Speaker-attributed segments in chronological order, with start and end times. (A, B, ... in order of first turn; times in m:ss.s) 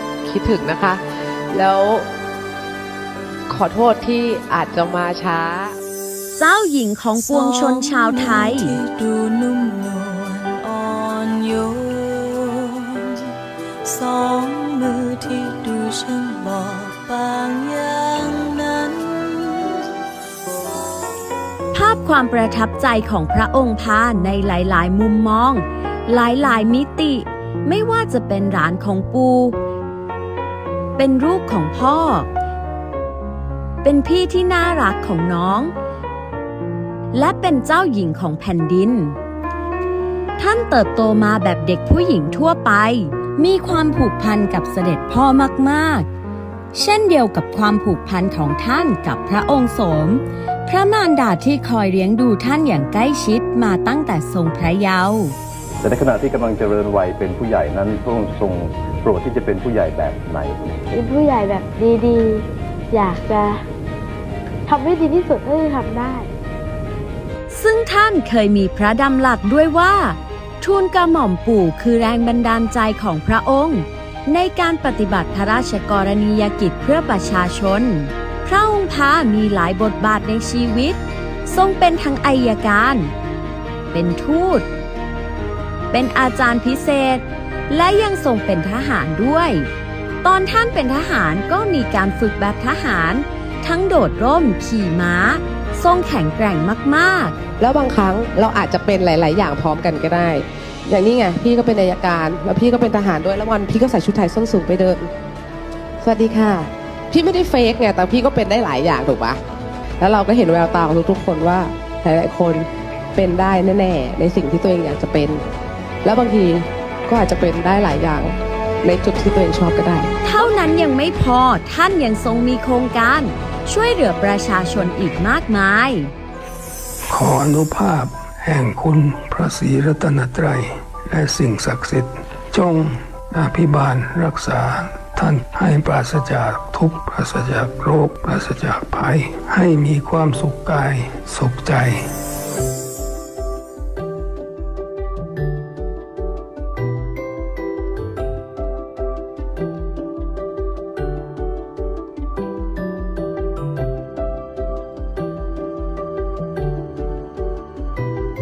0:00.2-0:02.1 A
0:03.5-0:05.8 A
0:06.4-0:08.7 B
0:07.2-0:19.9 C
0:21.7-0:29.6 B
0:31.0-0:32.3 B
0:33.8-0:35.7 B
0:37.1-0:39.2 B
0:40.4-0:46.1 B
0:46.7-0:55.4 B
0:55.8-1:00.8 D
1:00.9-1:03.6 E
1:04.7-1:06.3 E
1:07.5-1:21.0 B
1:21.5-1:23.1 B
1:23.9-1:24.7 B
1:25.9-1:29.7 B
1:30.2-1:37.4 B
1:37.6-1:45.1 A
1:46.0-1:49.4 A
1:50.0-1:55.4 A
1:56.0-2:00.1 A
2:00.2-2:06.1 B
2:07.1-2:22.1 F